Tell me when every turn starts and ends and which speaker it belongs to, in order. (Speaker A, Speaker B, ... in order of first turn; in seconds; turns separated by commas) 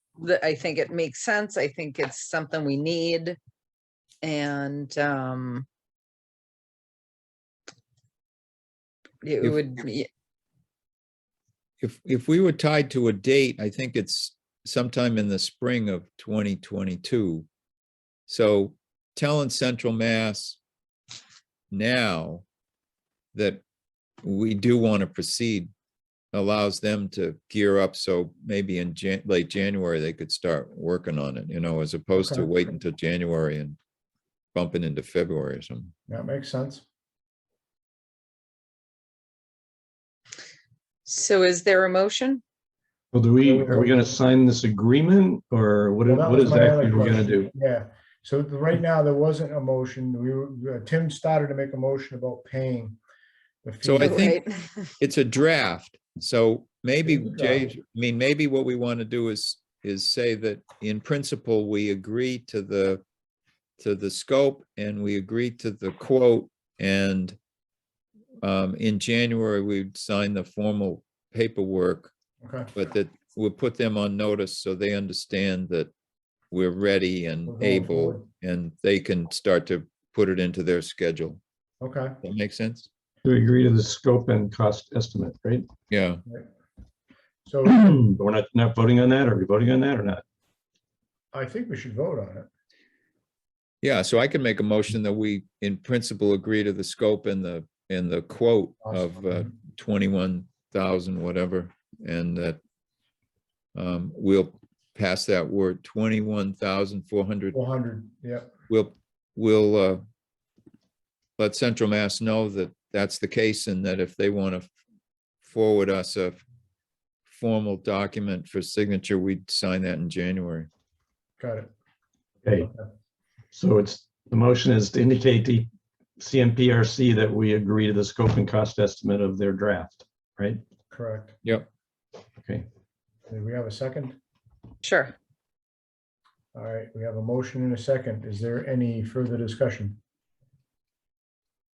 Speaker A: 0.2-3.4, Speaker A: 4.2-5.7, Speaker A: 9.2-10.1, Speaker B: 11.8-17.5, Speaker B: 18.3-20.6, Speaker B: 21.7-22.4, Speaker B: 23.3-23.6, Speaker B: 24.2-25.7, Speaker B: 26.3-33.8, Speaker C: 32.1-32.5, Speaker B: 34.5-35.9, Speaker C: 36.1-36.8, Speaker A: 41.0-42.4, Speaker D: 43.1-47.5, Speaker C: 43.4-44.2, Speaker C: 46.0-53.0, Speaker C: 53.6-54.3, Speaker B: 53.8-54.4, Speaker A: 54.0-54.9, Speaker B: 55.0-63.0, Speaker C: 57.0-57.7, Speaker B: 63.8-67.4, Speaker B: 68.4-72.1, Speaker C: 72.4-72.7, Speaker B: 72.7-75.9, Speaker B: 76.5-81.4, Speaker C: 77.5-78.2, Speaker C: 81.8-82.2, Speaker B: 82.2-82.9, Speaker D: 83.2-85.7, Speaker B: 85.9-86.2, Speaker C: 87.5-88.1, Speaker D: 87.7-90.2, Speaker C: 91.3-92.5, Speaker B: 93.8-102.6, Speaker C: 98.9-99.5, Speaker B: 103.7-107.6, Speaker C: 107.5-108.5, Speaker B: 108.7-110.0, Speaker B: 111.4-114.7, Speaker B: 115.4-116.4, Speaker B: 117.3-120.7, Speaker C: 121.4-121.7, Speaker C: 122.5-122.8, Speaker D: 123.5-130.6, Speaker C: 130.9-131.4, Speaker C: 133.3-134.2, Speaker A: 134.8-135.1, Speaker C: 136.5-140.0